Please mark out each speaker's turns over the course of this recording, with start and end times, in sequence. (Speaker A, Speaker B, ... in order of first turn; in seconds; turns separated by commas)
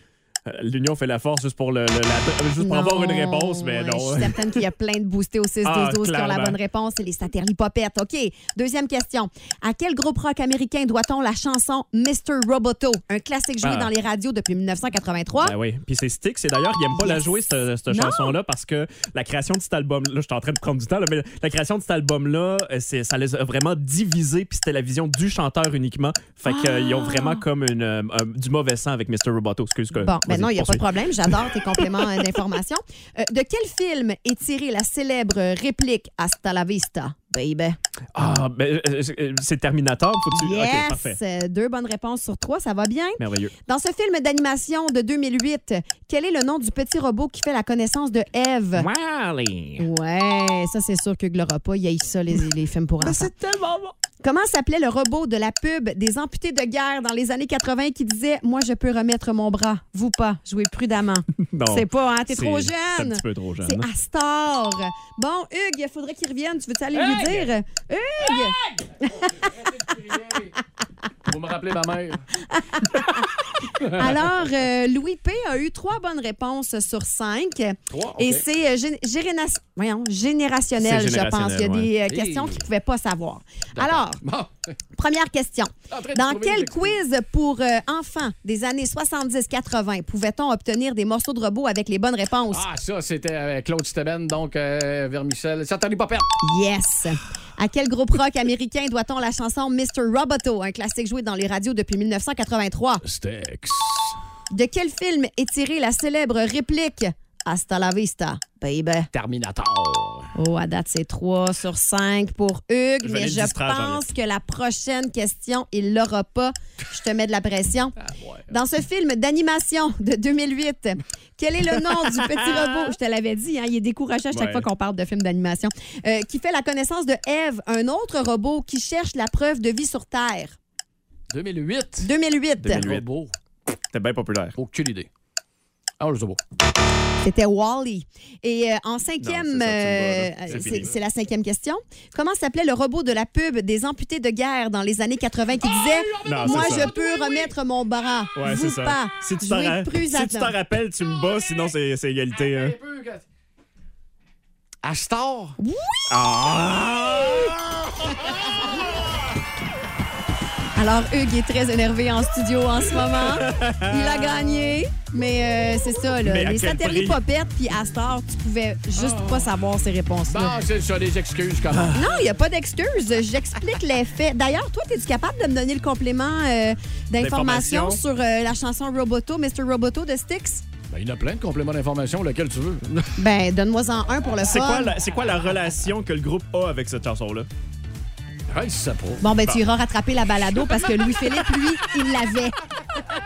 Speaker A: 0.5-4.6, Speaker B: 2.6-15.6, Speaker A: 5.7-6.6, Speaker A: 13.6-13.9, Speaker A: 15.4-30.8, Speaker B: 17.0-17.3, Speaker B: 17.9-18.4, Speaker B: 26.5-27.4, Speaker B: 30.0-37.8, Speaker A: 38.1-41.2, Speaker B: 40.3-48.9, Speaker A: 43.2-43.5, Speaker A: 48.8-49.9, Speaker B: 49.8-53.3, Speaker A: 53.0-53.9, Speaker B: 54.2-69.3, Speaker A: 61.5-63.9, Speaker C: 66.9-67.5, Speaker C: 68.2-70.6, Speaker C: 71.3-72.3, Speaker B: 72.5-73.3, Speaker C: 73.8-74.0, Speaker B: 73.8-84.2, Speaker C: 77.9-78.5, Speaker A: 80.8-81.9, Speaker C: 82.1-82.6, Speaker C: 83.8-84.8, Speaker B: 85.0-92.6, Speaker C: 85.9-87.0, Speaker C: 92.5-96.3, Speaker B: 96.4-103.0, Speaker C: 103.0-104.2, Speaker B: 104.5-109.1, Speaker C: 109.1-110.3, Speaker B: 110.4-118.0, Speaker A: 113.0-114.0, Speaker C: 118.0-118.5, Speaker B: 118.5-130.6, Speaker A: 122.3-122.9, Speaker A: 124.3-124.7, Speaker C: 131.3-132.1, Speaker B: 132.0-132.8, Speaker A: 132.6-133.0, Speaker C: 132.7-133.3, Speaker A: 133.9-134.6, Speaker C: 134.6-135.1, Speaker C: 136.0-136.4, Speaker B: 137.2-150.6, Speaker A: 139.2-140.9, Speaker C: 140.5-141.0, Speaker C: 145.6-147.5, Speaker A: 146.2-146.9, Speaker A: 148.4-152.8, Speaker C: 152.3-153.2, Speaker C: 154.8-155.6, Speaker B: 155.6-156.1, Speaker A: 156.1-157.7, Speaker B: 160.8-170.6, Speaker A: 163.3-164.4, Speaker A: 166.2-167.2, Speaker C: 169.0-169.5, Speaker C: 170.3-172.0, Speaker A: 171.7-172.2, Speaker B: 171.9-180.6, Speaker A: 177.2-178.0, Speaker C: 180.9-183.2, Speaker B: 183.2-184.9, Speaker A: 184.5-187.5, Speaker C: 188.5-189.3, Speaker B: 189.2-192.6